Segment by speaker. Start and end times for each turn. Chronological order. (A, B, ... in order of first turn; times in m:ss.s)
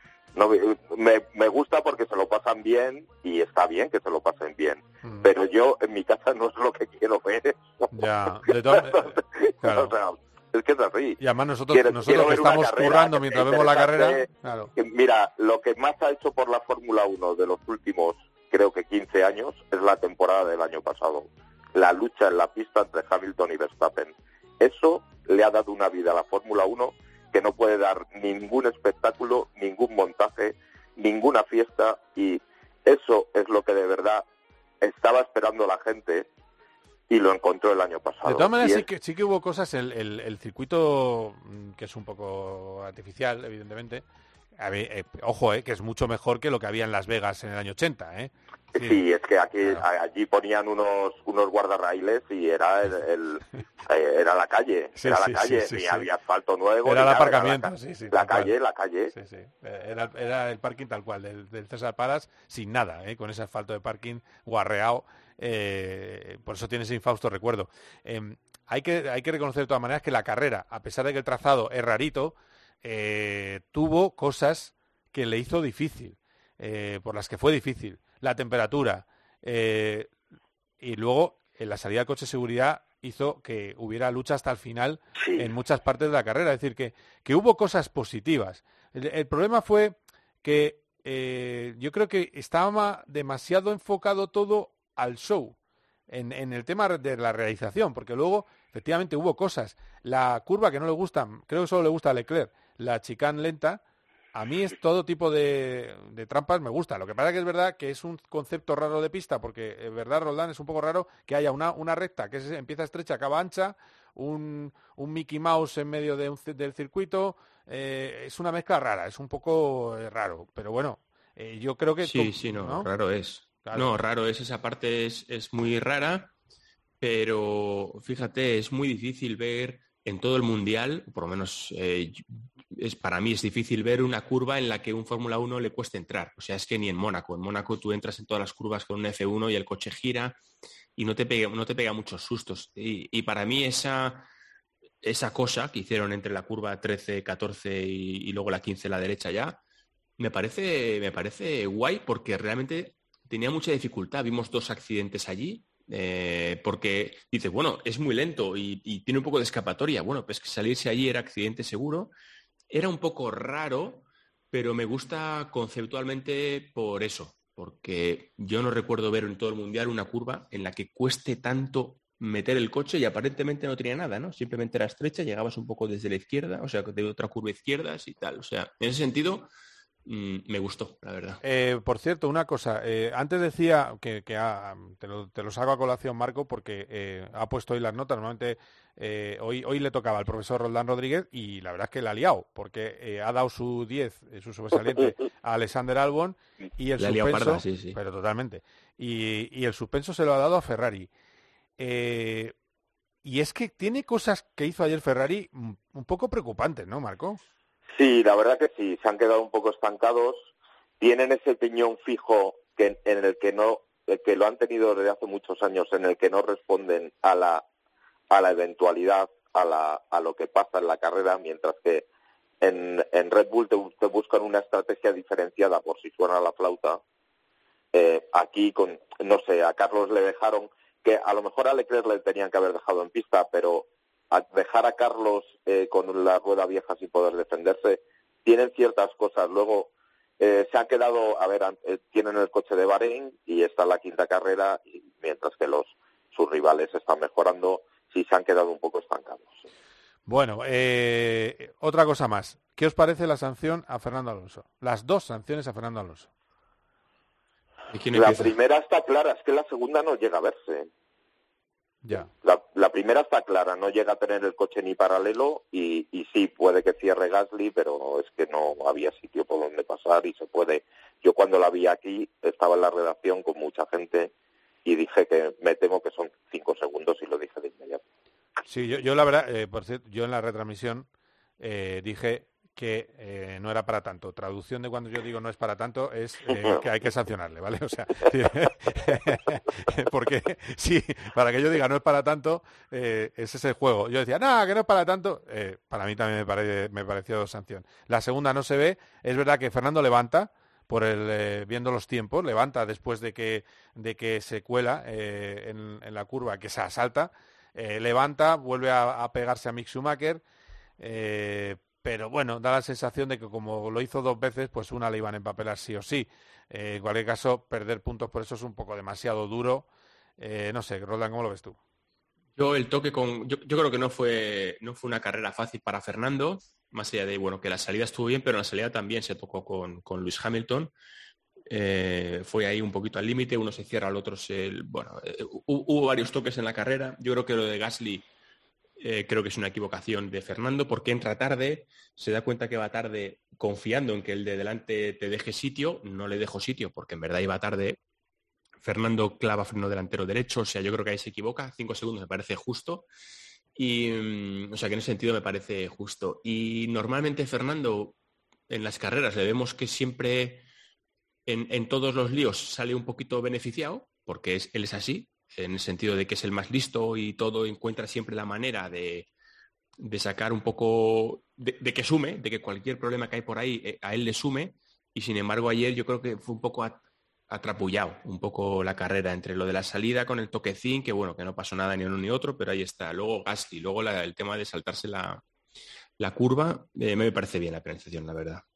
0:00.3-0:07.9 A
0:05.0-0:05.3 B
0:07.9-0:09.9 B
0:08.5-0:34.2 A
0:11.2-0:14.7 B
0:34.8-0:36.3 A
0:37.1-0:38.8 A
0:38.2-0:44.0 B
0:44.6-0:49.0 B
0:48.7-0:59.1 A
0:55.0-0:56.1 B
0:56.8-0:58.5 B
0:59.1-1:20.1 B
1:20.8-1:35.5 B
1:25.2-1:25.5 A
1:36.1-1:43.8 B
1:44.3-2:02.9 B
2:02.0-2:06.3 C
2:03.6-2:03.9 B
2:07.0-2:20.4 C
2:21.0-2:24.3 C
2:25.0-2:29.6 C
2:30.2-2:42.1 C
2:42.7-2:59.5 C
3:00.0-3:01.4 C
3:01.4-3:21.1 B
3:17.0-3:18.0 C
3:21.8-3:22.5 B
3:23.2-3:27.4 B
3:28.0-3:30.5 A
3:31.0-3:37.6 A
3:38.3-3:42.0 A
3:42.6-3:47.0 A
3:47.9-4:09.6 A
4:10.3-4:16.3 B
4:17.9-4:18.6 C
4:18.1-4:20.9 A
4:22.0-4:22.3 B
4:22.4-4:34.3 A
4:34.8-4:38.0 A
4:38.6-4:41.1 B
4:41.6-5:10.4 B
5:11.0-5:19.9 B
5:20.4-5:21.8 B
5:22.6-5:30.9 C
5:31.7-5:38.2 C
5:39.0-5:48.0 C
5:48.8-5:53.0 C
5:53.8-5:58.1 C
5:58.7-6:00.6 C
6:01.5-6:09.3 C
6:10.0-6:25.4 C
6:26.2-6:28.6 C